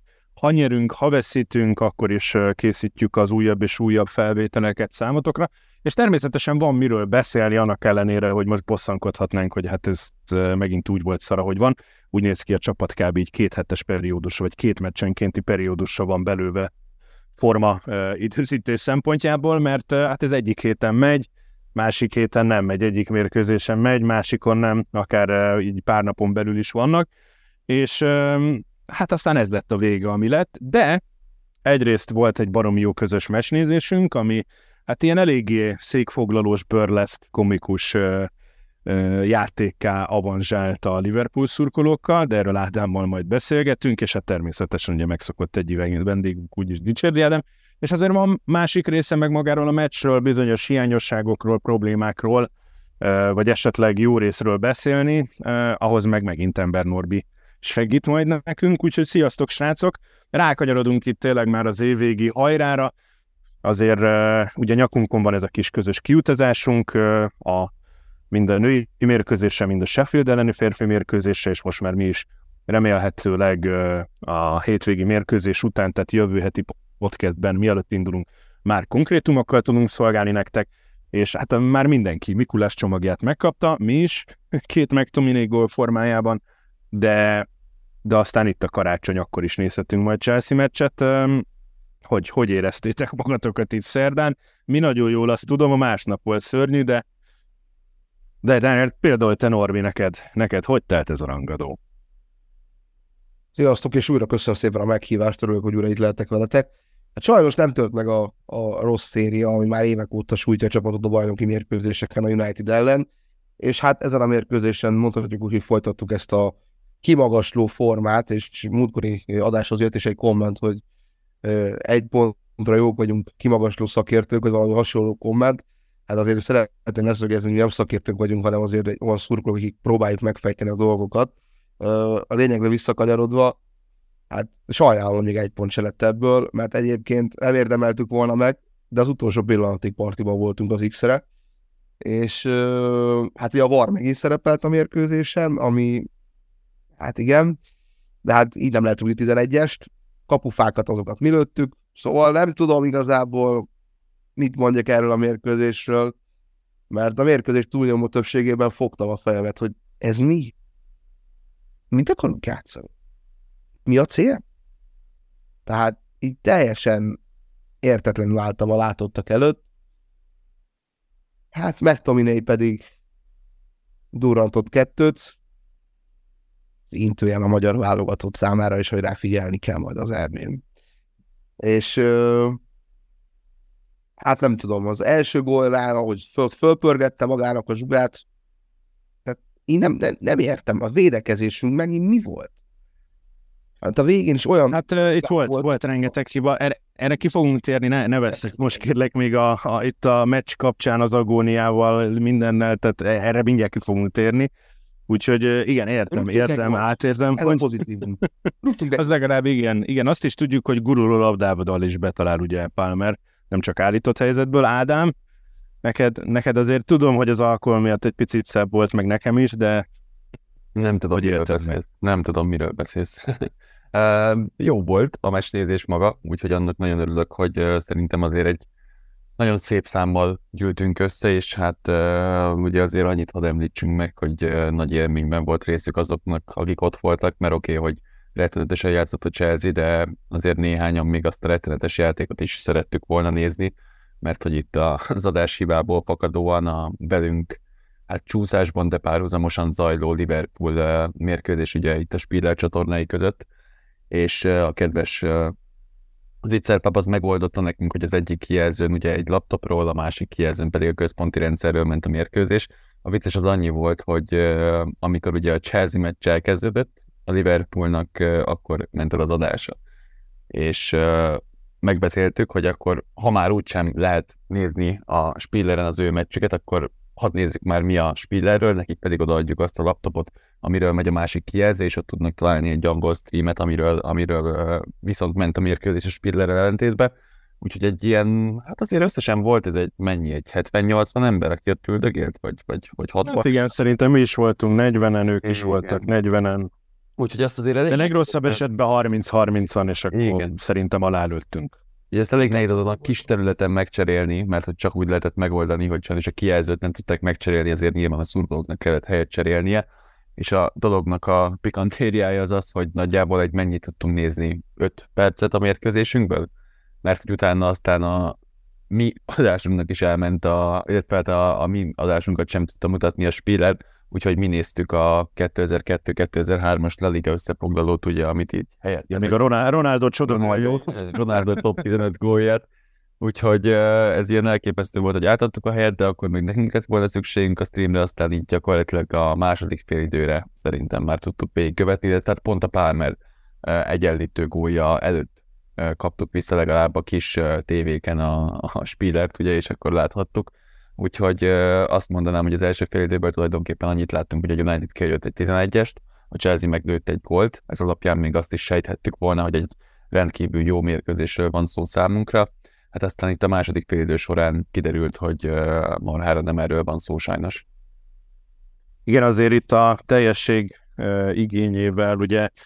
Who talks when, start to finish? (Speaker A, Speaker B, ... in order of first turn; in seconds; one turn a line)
Speaker A: 0.4-16.7
Speaker A: 17.4-27.1
Speaker A: 27.7-31.0
Speaker A: 31.6-38.3
Speaker A: 38.8-62.9
Speaker A: 63.6-67.7
Speaker A: 68.3-86.4
Speaker A: 86.9-87.5
Speaker A: 88.0-91.4
Speaker A: 92.0-97.0
Speaker A: 98.4-101.8
Speaker B: 103.5-113.1
Speaker B: 113.6-120.8
Speaker B: 121.4-133.6
Speaker B: 134.3-141.2
Speaker B: 142.0-146.1
Speaker B: 147.0-147.6
Speaker B: 148.2-153.7
Speaker B: 154.3-156.1
Speaker B: 156.9-160.5
Speaker B: 161.9-162.9
Speaker B: 163.8-164.4
Speaker B: 165.7-167.2
Speaker B: 167.8-169.6
Speaker B: 171.5-172.8
Speaker B: 174.1-175.4
Speaker B: 176.9-180.6
Speaker B: 181.6-182.6
Speaker B: 184.2-188.2
Speaker B: 189.2-192.5
Speaker B: 193.8-195.7
Speaker A: 194.7-204.5
Speaker A: 205.1-207.7
Speaker B: 206.1-206.8
Speaker B: 207.3-209.1
Speaker A: 208.9-215.1
Speaker A: 215.8-219.8
Speaker C: 220.7-228.6
Speaker A: 221.2-221.8
Speaker C: 229.4-253.4
Speaker C: 254.1-255.5
Speaker C: 256.4-269.8
Speaker C: 270.5-293.5
Speaker A: 293.2-296.7
Speaker C: 295.4-296.0
Speaker C: 297.2-298.6
Speaker A: 297.9-301.8
Speaker C: 300.1-300.5
Speaker C: 302.1-309.8
Speaker C: 310.4-316.5
Speaker C: 317.0-318.4
Speaker C: 318.9-329.4
Speaker A: 329.1-331.6
Speaker C: 330.3-332.6
Speaker C: 333.2-367.6
Speaker A: 369.1-372.5